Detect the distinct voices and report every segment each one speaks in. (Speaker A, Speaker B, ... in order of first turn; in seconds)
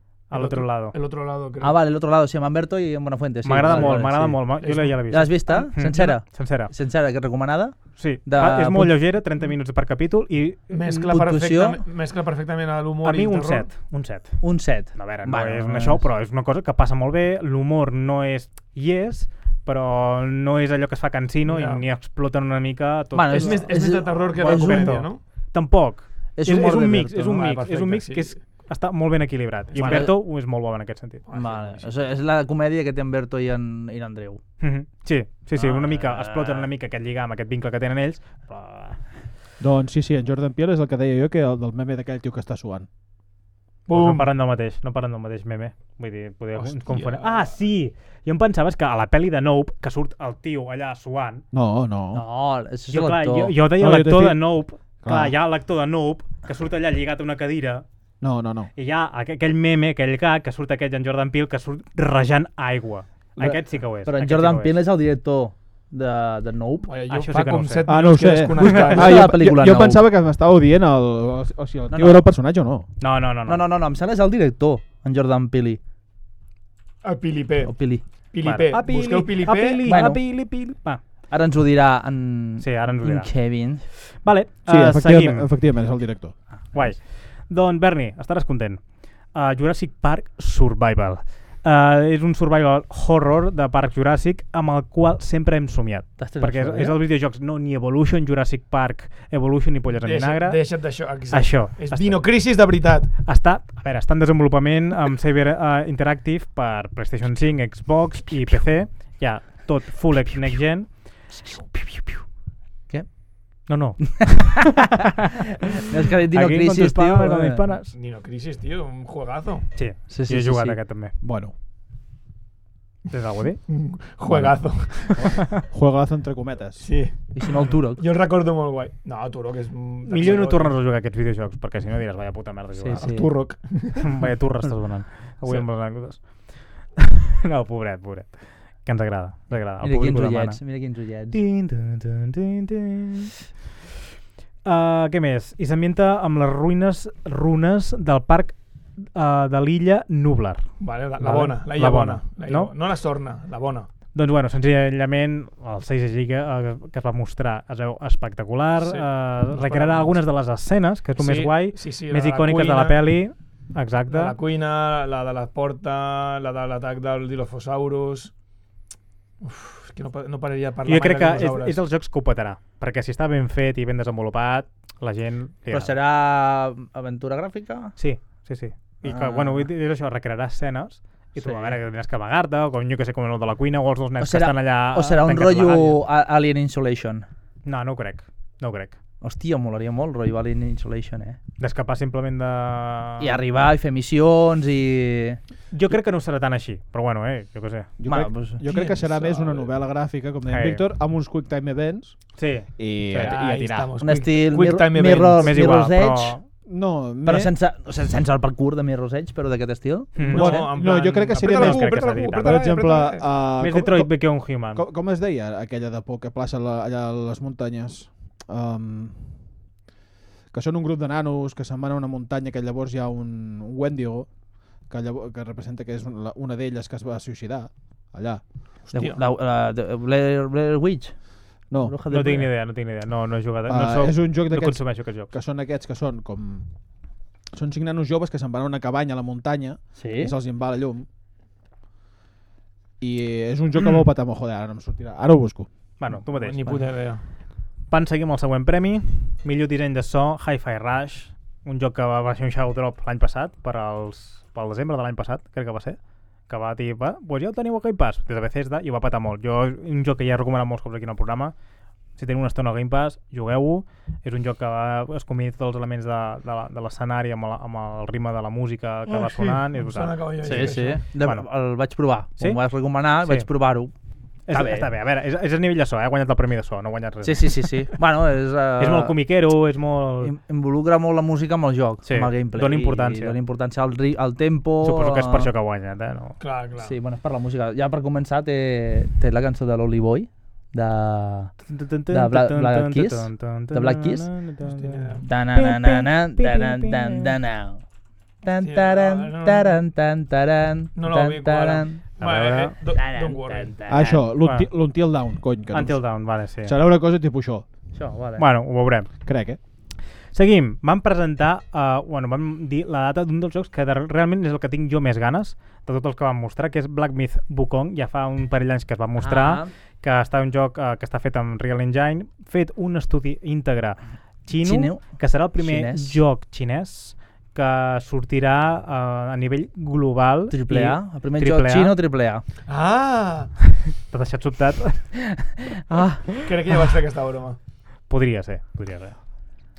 Speaker A: 0.3-0.9, 3.4-6.7, 8.0-10.7, 13.0-23.8, 24.4-31.2, 34.6-39.1, 43.9-51.4, 52.9-57.8, 58.8-64.8, 67.1-68.9, 73.0-73.6, 78.4-81.0, 82.6-85.5, 86.7-102.5, 103.2-112.2, 113.7-114.8, 116.3-117.9, 119.7-121.1, 123.1-123.6, 130.1-133.1, 134.0-143.3, 144.6-148.6, 149.1-152.7, 154.1-164.4, 170.8-175.9, 178.0-186.0, 187.6-189.0, 191.6-193.4, 195.7-197.9, 200.5-200.8, 202.4-203.9, 205.4-206.4, 210.2-212.8, 213.6-214.8, 232.1-235.3, 246.0-246.9, 247.9-261.5, 262.1-271.5, 272.4-273.5, 274.5-277.8, 278.8-280.3, 282.1-283.4, 284.8-286.4, 291.6-297.3, 302.2-302.8, 304.4-304.7, 305.7-306.7, 308.4-309.1, 310.3-331.9, 334.1-335.3, 335.9-336.4, 338.1-339.4
Speaker B: 0.3-1.8, 3.6-4.0, 4.6-5.0, 10.7-13.7, 21.4-21.8, 23.3-25.2, 27.3-28.4, 29.7-30.1, 31.3-31.9, 43.9-44.3, 46.5-47.5, 66.8-69.2, 77.0-80.0, 100.0-103.1, 117.9-119.7, 123.7-125.4, 126.8-130.8, 133.0-134.3, 150.8-153.9, 158.8-160.2, 161.2-163.0, 164.1-168.3, 169.4-171.8, 198.6-199.7, 203.1-205.7, 210.2-213.2, 228.9-229.2, 246.1-247.2, 269.1-271.0, 286.4-286.9, 294.6-295.3, 298.6-299.8, 300.9-303.7, 332.7-333.5, 336.4-337.6
Speaker C: 1.6-4.5, 5.1-8.9, 10.9-11.8, 14.4-16.1, 23.1-25.1, 26.4-27.4, 29.7-30.2, 31.3-34.4, 35.5-36.7, 52.1-53.5, 63.4-66.9, 68.8-70.0, 71.9-72.3, 73.5-75.8, 77.7-78.0, 79.8-80.2, 81.3-83.8, 96.2-97.0, 112.9-113.7, 115.8-117.6, 120.1-120.8, 127.3-128.0, 132.8-133.3, 139.8-141.4, 175.7-177.9, 179.0-179.7, 181.4-181.8, 184.2-187.2, 189.2-191.4, 193.2-195.4, 198.1-198.6, 204.0-206.4, 207.2-210.2, 228.9-232.5, 239.9-240.3, 270.4-273.9, 274.5-274.9, 277.2-279.1, 280.2-285.5, 286.8-291.5, 292.1-294.3, 295.2-297.8, 298.4-302.0, 302.9-304.3, 307.9-308.4, 319.2-319.7, 324.5-326.2, 330.5-332.4, 335.9-336.2
Speaker D: 39.6-42.9, 51.5-52.2, 53.8-54.5, 55.0-55.3, 58.2-58.7, 67.8-72.8, 84.7-86.3, 121.2-121.5, 124.3-126.9, 198.0-203.4, 206.7-207.5, 210.3-219.4, 220.5-224.3, 224.8-228.4, 231.7-231.9, 233.7-236.7, 237.5-241.1, 243.0-245.7, 303.9-307.6, 309.2-309.6